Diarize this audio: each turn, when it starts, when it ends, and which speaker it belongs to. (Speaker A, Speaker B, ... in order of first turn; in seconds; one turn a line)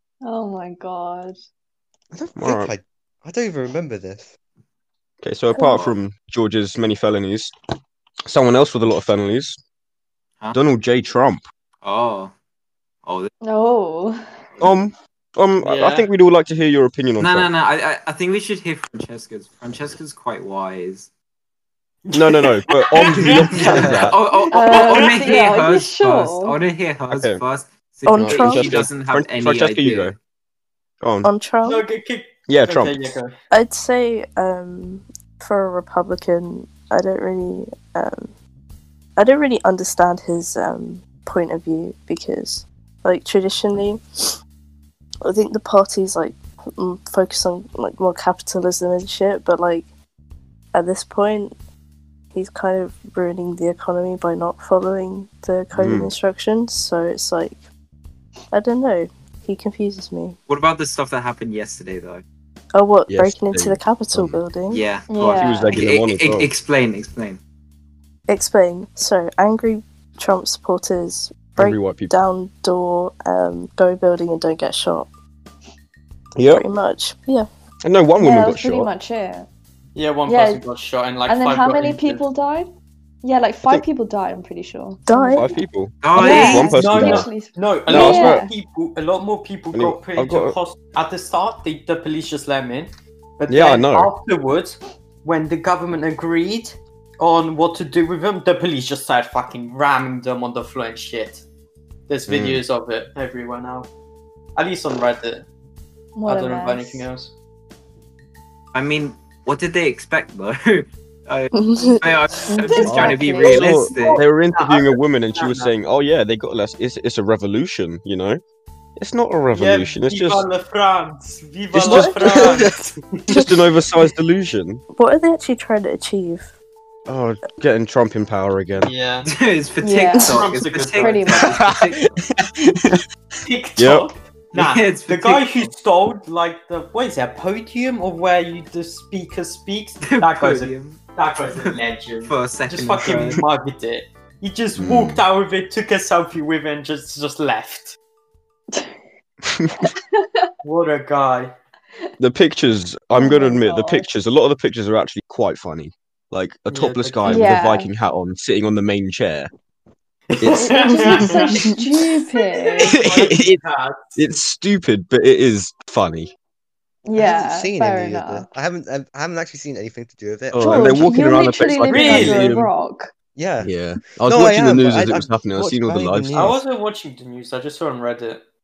Speaker A: 0.2-1.4
Speaker B: 2.1-4.3
Speaker C: 2.4-2.7
Speaker C: 5.2-7.5
Speaker D: 5.5-6.0
Speaker C: 8.3-9.6
Speaker C: 10.5-11.4
Speaker D: 11.8-12.3
Speaker D: 13.1-13.3
Speaker A: 13.4-14.2
Speaker C: 14.6-17.5
Speaker E: 15.6-16.1
Speaker D: 17.2-21.1
Speaker E: 22.1-24.0
Speaker C: 22.1-24.2
Speaker D: 23.2-30.2
Speaker B: 23.6-24.1
Speaker A: 24.5-26.6
Speaker E: 24.5-25.5
Speaker C: 27.1-27.4
Speaker F: 28.1-28.8
Speaker C: 28.1-30.2
Speaker C: 31.0-31.3
Speaker F: 31.2-31.9
Speaker E: 31.6-33.3
Speaker C: 32.5-33.1
Speaker F: 33.5-38.3
Speaker F: 39.2-44.3
Speaker F: 45.2-49.9
Speaker F: 50.7-51.5
Speaker F: 52.3-57.6
Speaker C: 55.8-56.1
Speaker F: 58.5-60.4
Speaker D: 60.5-62.2
Speaker F: 62.7-64.8
Speaker C: 63.1-64.4
Speaker D: 64.7-67.4
Speaker A: 65.1-65.7
Speaker C: 65.4-66.5
Speaker F: 68.3-75.1
Speaker C: 71.6-72.1
Speaker C: 76.4-76.6
Speaker F: 76.5-77.5
Speaker C: 77.8-78.9
Speaker A: 78.2-79.5
Speaker E: 80.0-82.2
Speaker A: 80.3-80.6
Speaker A: 81.3-82.7
Speaker A: 83.2-85.6
Speaker F: 85.0-85.5
Speaker C: 85.3-87.3
Speaker D: 86.0-86.8
Speaker A: 86.2-88.5
Speaker E: 86.2-101.4
Speaker C: 87.9-88.4
Speaker C: 89.7-90.6
Speaker C: 93.5-94.1
Speaker E: 102.1-103.9
Speaker C: 102.3-102.6
Speaker E: 104.6-105.5
Speaker A: 106.2-107.1
Speaker E: 106.3-107.3
Speaker D: 108.7-114.2
Speaker F: 111.5-112.1
Speaker A: 112.5-113.6
Speaker E: 112.6-115.7
Speaker C: 113.5-118.4
Speaker C: 119.0-120.5
Speaker E: 119.5-123.2
Speaker C: 121.7-124.8
Speaker F: 121.9-122.2
Speaker F: 124.9-126.5
Speaker C: 127.1-128.9
Speaker E: 128.8-129.3
Speaker D: 129.3-132.1
Speaker A: 129.8-130.4
Speaker E: 130.2-131.5
Speaker A: 131.0-131.6
Speaker C: 131.6-133.0
Speaker E: 133.4-148.0
Speaker C: 133.8-134.1
Speaker D: 134.5-135.7
Speaker D: 140.0-141.0
Speaker D: 141.5-143.4
Speaker C: 144.8-145.2
Speaker C: 149.5-149.9
Speaker A: 149.8-150.5
Speaker E: 150.6-151.6
Speaker C: 152.2-159.5
Speaker A: 153.1-154.1
Speaker E: 156.7-157.6
Speaker A: 157.3-157.9
Speaker E: 160.3-164.2
Speaker C: 160.4-161.4
Speaker A: 160.5-163.0
Speaker C: 162.9-163.6
Speaker C: 164.2-166.3
Speaker A: 167.1-168.5
Speaker B: 167.2-171.0
Speaker C: 170.5-172.7
Speaker A: 170.6-173.1
Speaker E: 171.8-172.6
Speaker B: 173.3-173.7
Speaker C: 173.6-176.6
Speaker B: 174.2-176.6
Speaker E: 176.3-178.4